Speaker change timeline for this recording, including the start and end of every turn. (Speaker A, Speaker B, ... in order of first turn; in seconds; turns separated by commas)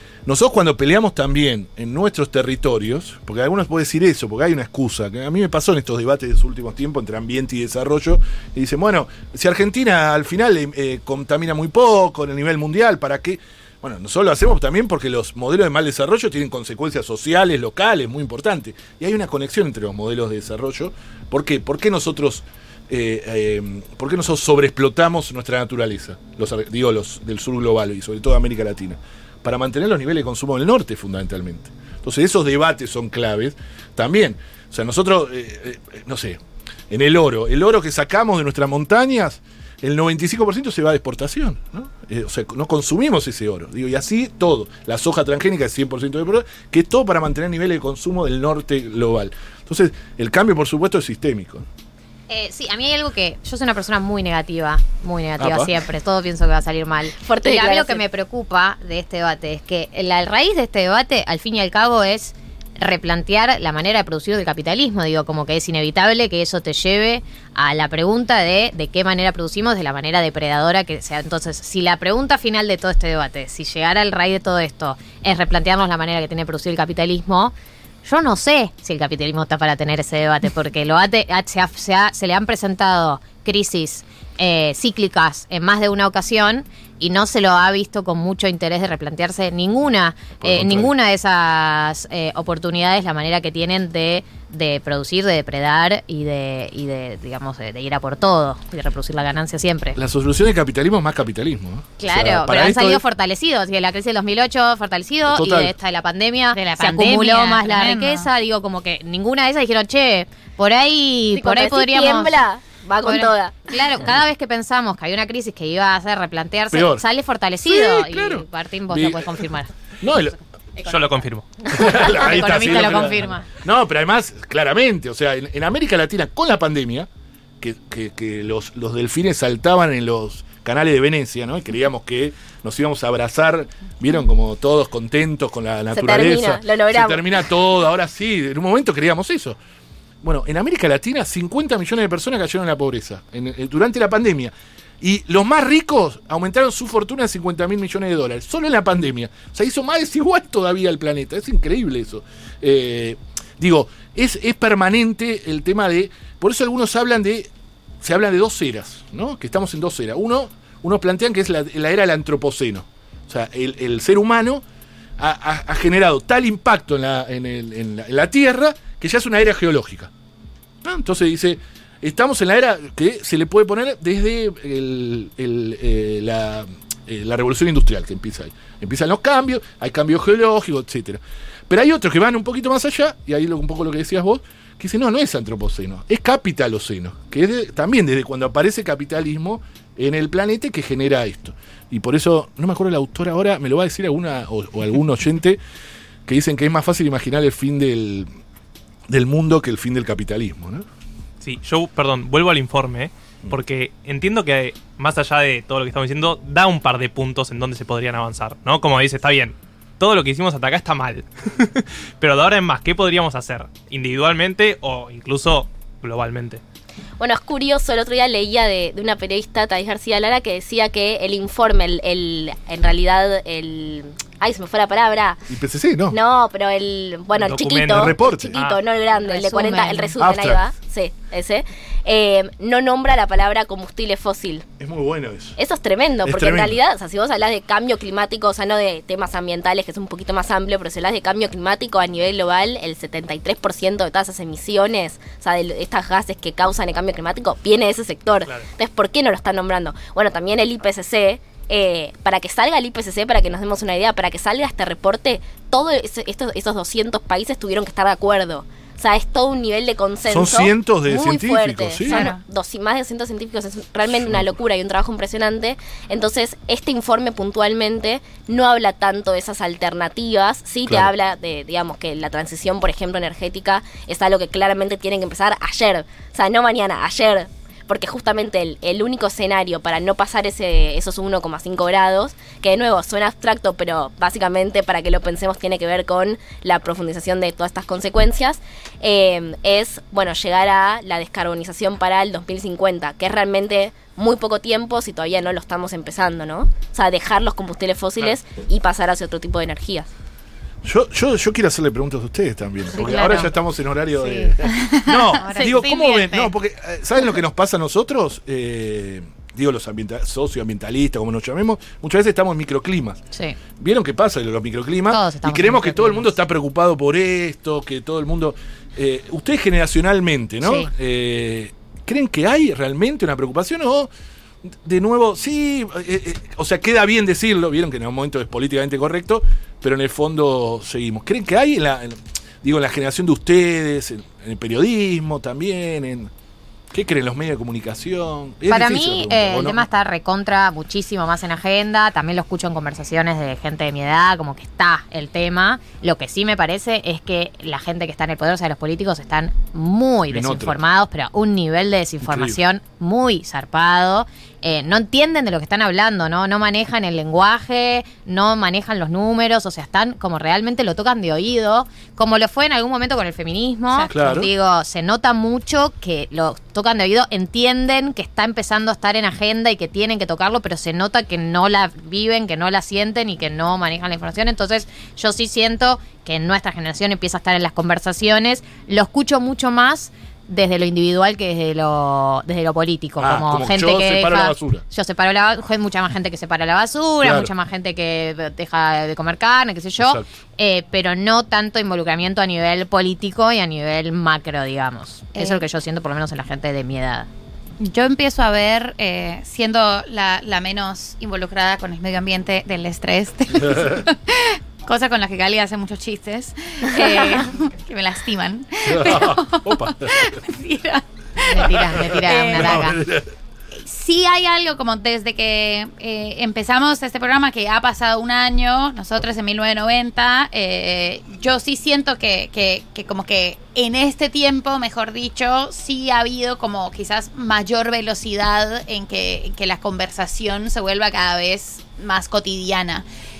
Speaker A: 0.2-36.4, Speaker A: 36.9-51.6, Speaker B: 52.3-100.0, Speaker A: 55.4-55.7, Speaker C: 57.2-58.0, Speaker A: 90.4-90.9, Speaker A: 100.0-103.0, Speaker B: 102.0-112.4, Speaker A: 105.3-105.7, Speaker D: 106.5-108.3, Speaker C: 111.3-113.6, Speaker B: 113.0-119.7, Speaker A: 116.7-117.0, Speaker A: 117.6-119.5, Speaker A: 120.0-120.4, Speaker E: 120.8-121.6, Speaker B: 121.7-123.5, Speaker A: 121.7-127.1, Speaker A: 127.6-139.6, Speaker C: 135.9-137.3, Speaker A: 140.2-157.5, Speaker A: 158.0-164.6, Speaker A: 165.2-170.1, Speaker A: 170.8-195.6, Speaker A: 196.2-198.3, Speaker A: 199.1-200.8, Speaker E: 201.4-216.6, Speaker C: 217.2-225.4, Speaker A: 225.5-226.2, Speaker C: 226.1-234.7, Speaker E: 227.4-228.8, Speaker A: 227.9-228.6, Speaker B: 229.2-230.1, Speaker A: 230.2-230.7, Speaker A: 234.8-235.6, Speaker C: 235.6-300.1, Speaker A: 236.2-236.8, Speaker A: 260.3-262.3, Speaker D: 262.1-262.4, Speaker A: 264.2-264.5, Speaker A: 300.8-313.2, Speaker B: 303.0-303.5, Speaker B: 304.2-304.5, Speaker D: 304.7-305.7, Speaker B: 305.4-306.5, Speaker A: 313.8-324.1, Speaker B: 315.1-316.3, Speaker A: 324.7-336.3, Speaker A: 336.9-339.8, Speaker B: 338.7-397.3, Speaker A: 350.3-350.8, Speaker A: 352.2-352.6, Speaker A: 364.1-364.5, Speaker A: 383.2-384.8, Speaker A: 387.2-387.5, Speaker A: 390.0-390.2, Speaker D: 395.4-395.6, Speaker D: 397.8-412.9, Speaker A: 403.6-404.0, Speaker C: 407.0-407.3, Speaker A: 408.8-410.4, Speaker B: 411.4-413.0, Speaker A: 411.6-413.3, Speaker D: 413.8-433.0